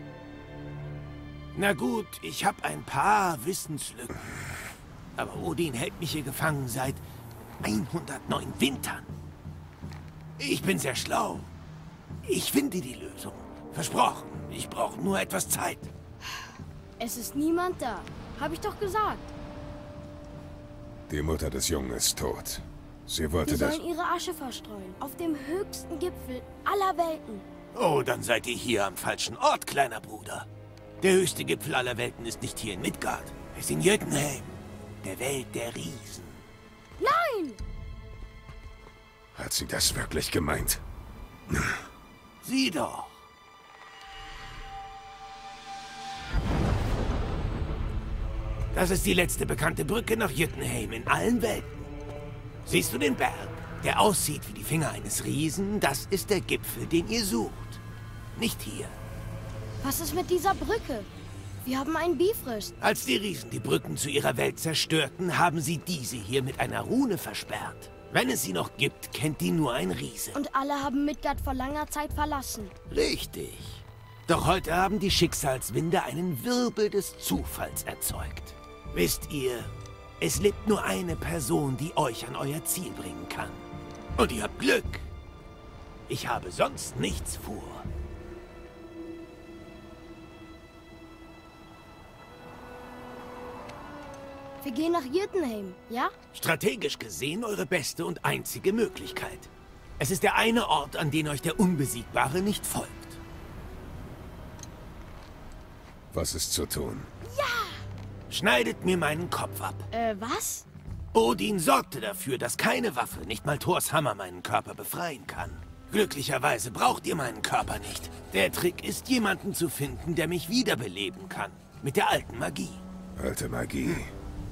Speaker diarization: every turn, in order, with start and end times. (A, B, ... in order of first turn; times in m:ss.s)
0:01.5-0:04.2 A
0:05.2-0:07.0 A
0:07.6-0:09.1 A
0:10.4-0:11.5 A
0:12.2-0:15.9 A
0:17.0-0:19.3 B
0:21.1-0:23.8 C
0:23.4-0:27.4 B
0:27.7-0:30.5 A
0:31.0-0:36.5 A
0:37.0-0:37.6 B
0:39.3-0:40.8 C
0:41.5-0:41.8 C
0:42.4-0:43.2 A
0:48.7-0:51.9 A
0:52.7-0:57.8 A
0:58.4-0:59.0 A
0:59.8-1:01.1 B
1:01.6-1:02.7 B
1:02.8-1:10.4 A
1:10.3-1:12.7 B
1:12.9-1:25.1 A
1:26.1-1:27.9 A
1:34.6-1:36.1 B
1:36.3-1:43.2 A
1:46.1-1:47.1 C
1:47.2-1:47.8 B
1:48.3-1:49.9 A
1:49.9-1:50.7 B
1:51.1-2:02.8 A
2:03.2-2:04.1 C